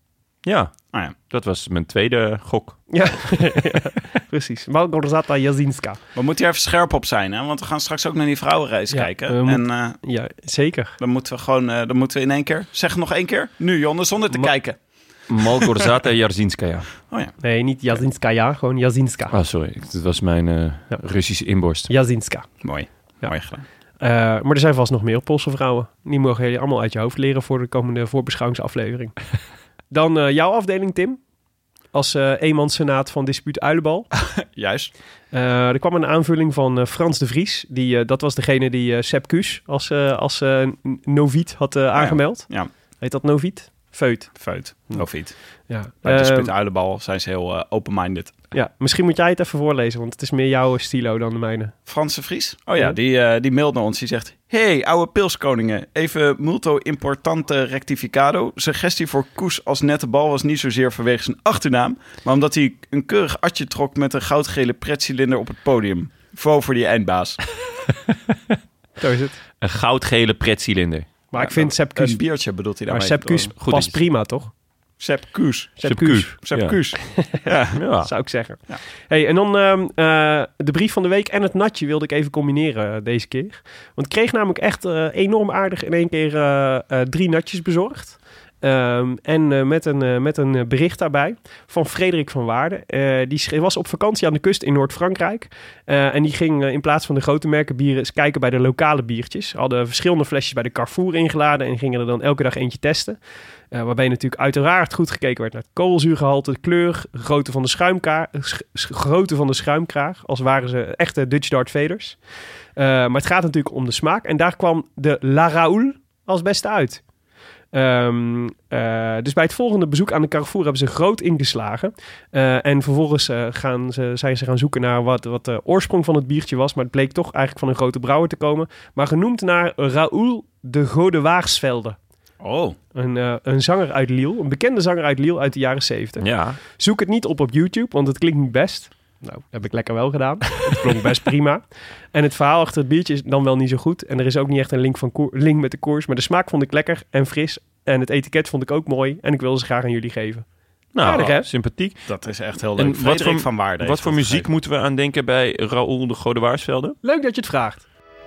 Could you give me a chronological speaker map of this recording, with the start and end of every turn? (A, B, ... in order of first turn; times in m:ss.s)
0:00.4-0:02.8 A
0:02.9-0:06.0 B
0:06.1-0:10.0 C
0:08.9-0:11.0 B
0:11.0-0:14.8 C
0:15.3-0:16.9 A
0:17.1-0:17.3 C
0:17.4-0:19.3 B
0:19.3-0:21.9 A
0:21.9-0:22.6 B
0:22.6-0:23.6 C
0:24.0-0:29.2 B
0:29.9-0:31.2 B
0:31.9-0:34.1 B
0:34.4-0:34.9 C
0:35.3-0:45.1 B
0:41.9-0:42.7 C
0:44.4-0:45.4 C
0:45.7-0:46.5 B
0:46.0-0:48.3 C
0:48.5-0:51.7 B
0:51.8-1:07.4 C
1:09.0-1:09.4 B
1:09.6-1:11.1 A
1:11.3-1:12.2 B
1:11.4-1:13.5 C
1:12.9-1:14.5 B
1:13.6-1:14.0 A
1:15.0-1:17.8 C
1:15.8-1:16.3 B
1:15.8-1:16.8 A
1:17.1-1:17.4 B
1:17.7-1:18.1 A
1:18.0-1:43.2 B
1:43.7-1:52.2 B
1:52.8-1:57.0 B
1:57.7-2:12.0 B
2:12.4-2:12.8 C
2:12.9-2:30.4 B
2:16.2-2:16.6 A
2:30.9-2:32.0 A
2:31.0-2:31.5 B
2:32.1-2:34.5 C
2:32.8-2:37.0 A
2:37.0-2:37.8 B